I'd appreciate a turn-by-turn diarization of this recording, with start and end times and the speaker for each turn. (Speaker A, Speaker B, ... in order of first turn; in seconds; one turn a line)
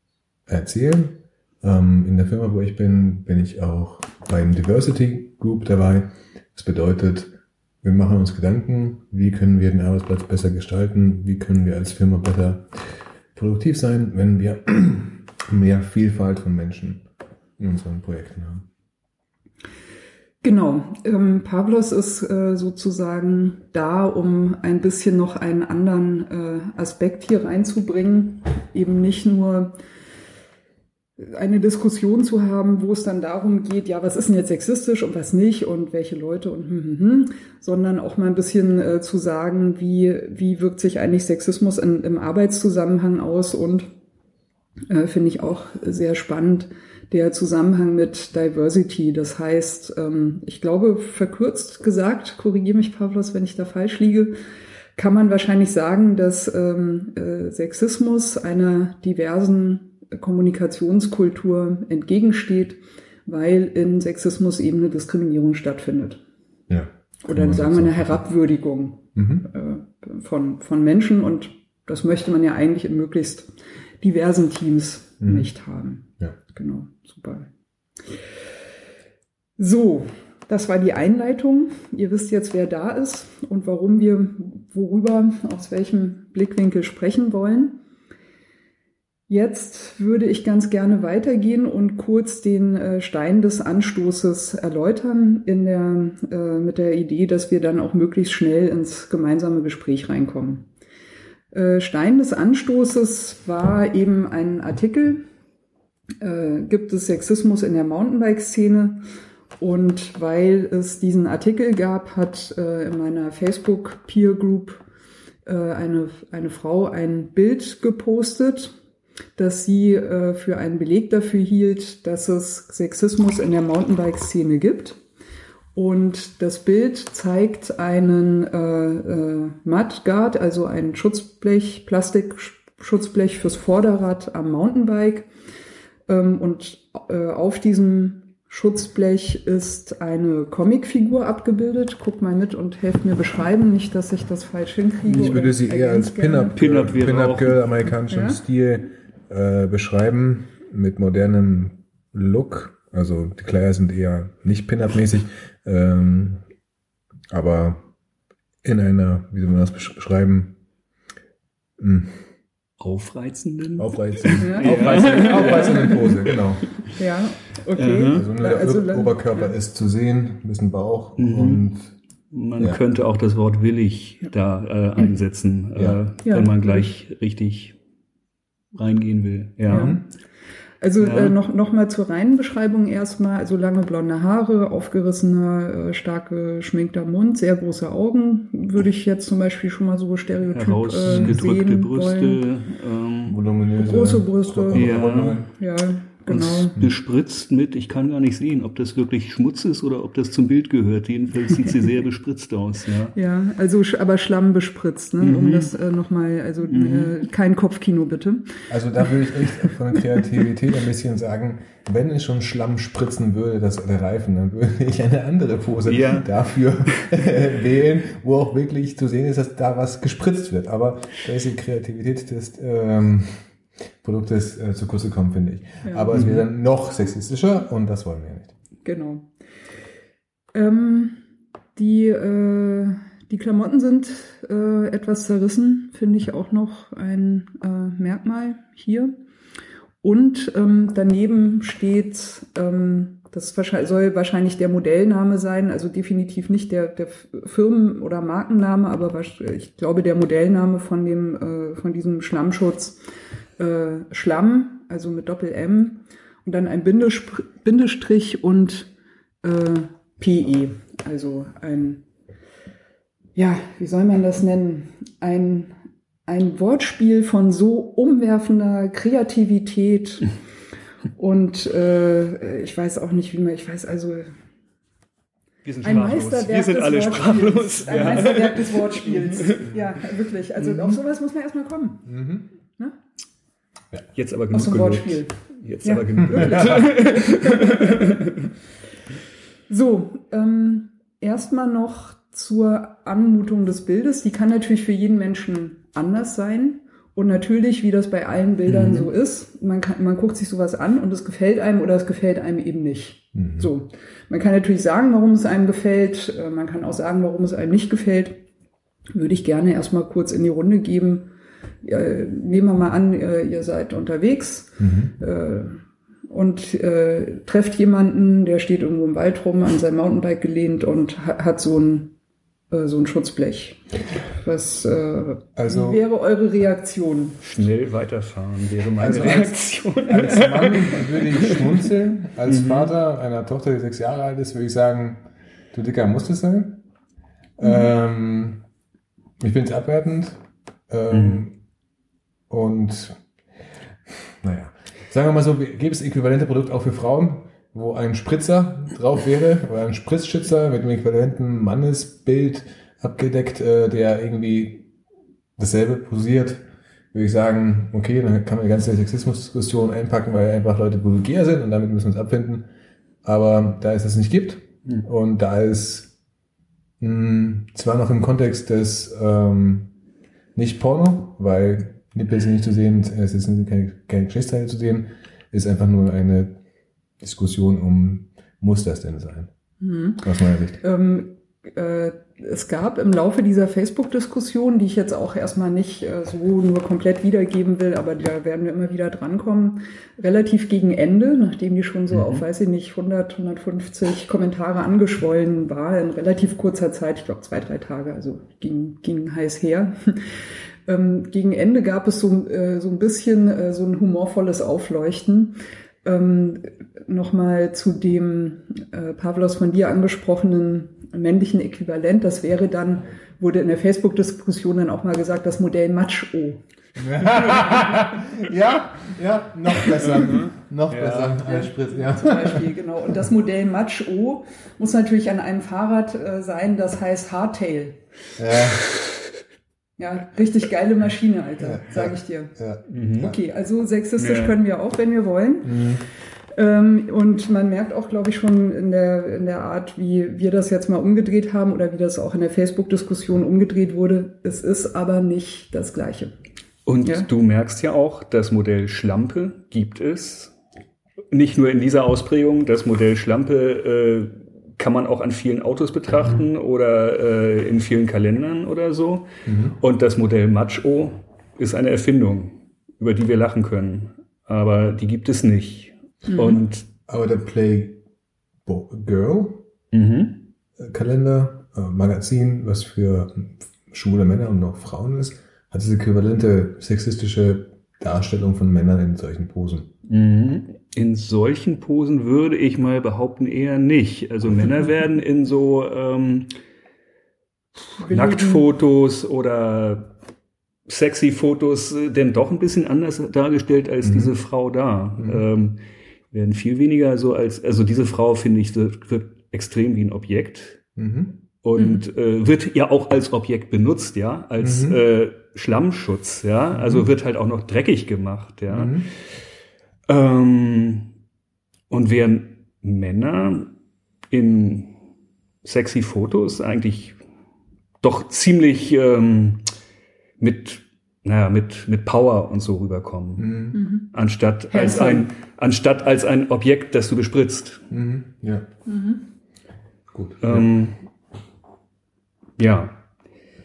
Speaker A: 0.5-12.7
Speaker A: 13.3-17.1
Speaker A: 17.6-18.6
Speaker B: 20.4-29.7
Speaker B: 31.2-43.9
Speaker B: 44.9-54.3
Speaker B: 55.0-66.2
Speaker A: 66.7-68.2
Speaker B: 67.2-77.5
Speaker A: 69.2-69.5
Speaker A: 75.2-75.5
Speaker B: 79.6-87.8
Speaker B: 89.3-100.7
Speaker B: 101.5-105.2
Speaker B: 106.2-109.0
Speaker B: 109.6-114.8
Speaker B: 115.5-118.7
Speaker B: 119.3-125.0
Speaker B: 125.7-135.3
Speaker B: 136.1-146.6
Speaker C: 145.1-145.5
Speaker A: 145.1-156.4
Speaker C: 146.5-147.7
Speaker B: 148.1-148.4
Speaker A: 157.3-157.8
Speaker A: 158.6-160.5
Speaker A: 161.8-162.2
Speaker C: 162.8-166.4
Speaker A: 163.8-166.7
Speaker B: 164.4-166.1
Speaker B: 167.0-169.5
Speaker C: 167.8-168.2
Speaker A: 168.1-171.9
Speaker C: 171.2-171.6
Speaker C: 172.3-177.8
Speaker A: 175.7-176.0
Speaker B: 176.2-176.9
Speaker C: 178.7-179.9
Speaker B: 179.7-180.0
Speaker A: 179.7-180.0
Speaker B: 180.8-192.4
Speaker C: 181.0-181.3
Speaker C: 190.5-193.4
Speaker A: 191.1-191.4
Speaker A: 193.3-195.5
Speaker B: 193.8-196.8
Speaker C: 194.7-195.4
Speaker C: 196.3-203.2
Speaker B: 203.1-208.5
Speaker C: 205.2-205.7
Speaker C: 206.7-207.1
Speaker A: 208.7-223.4
Speaker C: 215.9-216.3
Speaker A: 224.0-228.5
Speaker B: 225.8-226.1
Speaker C: 226.1-226.4
Speaker B: 228.8-229.2
Speaker B: 230.5-231.2
Speaker B: 231.7-239.1
Speaker B: 240.0-253.0
Speaker B: 253.6-258.9
Speaker B: 259.4-262.0
Speaker B: 263.4-265.7
Speaker B: 266.3-270.3
Speaker B: 271.1-274.3
Speaker C: 275.6-279.6
Speaker B: 275.8-282.1
Speaker A: 282.1-282.5
Speaker C: 284.1-288.3
Speaker B: 284.5-288.3
Speaker A: 286.2-286.9
Speaker B: 289.7-308.4
Speaker C: 298.7-299.1
Speaker A: 303.3-303.7
Speaker B: 309.1-311.3
Speaker B: 311.8-322.1
Speaker A: 314.8-315.1
Speaker B: 322.7-323.8
Speaker B: 324.3-327.4
Speaker A: 325.6-326.0
Speaker C: 327.4-331.8
Speaker A: 329.0-329.5
Speaker B: 329.0-330.1
Speaker A: 330.1-336.8
Speaker C: 332.4-332.9
Speaker A: 337.6-338.6
Speaker A: 339.4-341.6
Speaker C: 341.1-341.4
Speaker A: 342.5-343.2
Speaker A: 344.3-354.9
Speaker A: 355.6-362.6
Speaker A: 363.2-366.1
Speaker A: 367.0-369.9
Speaker A: 370.5-376.6
Speaker A: 377.2-379.5
Speaker B: 379.8-380.2
Speaker A: 380.2-380.8
Speaker B: 380.8-400.3
Speaker C: 392.1-392.4
Speaker B: 400.9-416.6
Speaker A: 416.9-422.7
Speaker C: 419.9-421.4
Speaker B: 421.4-428.0
Speaker A: 428.4-428.8
Speaker B: 430.0-432.5
Speaker A: 431.6-433.3
Speaker C: 432.9-433.3
Speaker B: 433.2-435.9
Speaker C: 434.2-434.6
Speaker A: 435.6-436.0
Speaker B: 436.5-446.3
Speaker C: 446.9-450.5
Speaker C: 451.3-459.2
Speaker A: 459.4-459.8
Speaker C: 459.8-466.9
Speaker B: 466.3-466.6
Speaker A: 467.1-468.0
Speaker A: 468.6-469.6
Speaker C: 469.9-470.4
Speaker A: 470.8-479.9
Speaker C: 480.1-486.5
Speaker B: 488.0-488.6
Speaker C: 488.1-490.1
Speaker C: 490.9-495.8
Speaker A: 494.0-494.3
Speaker A: 495.2-495.4
Speaker C: 496.3-500.8
Speaker A: 501.0-501.3
Speaker C: 501.6-509.1
Speaker B: 501.7-502.0
Speaker A: 504.6-505.0
Speaker A: 506.7-507.1
Speaker A: 508.7-509.1
Speaker C: 510.1-511.1
Speaker C: 511.9-513.7
Speaker C: 514.3-514.9
Speaker C: 515.6-517.1
Speaker C: 518.0-519.6
Speaker C: 520.4-527.9
Speaker A: 523.4-523.8
Speaker B: 523.7-524.1
Speaker B: 524.7-525.3
Speaker A: 527.9-528.7
Speaker B: 528.9-529.2
Speaker A: 530.1-530.7
Speaker C: 530.4-531.0
Speaker C: 532.6-532.9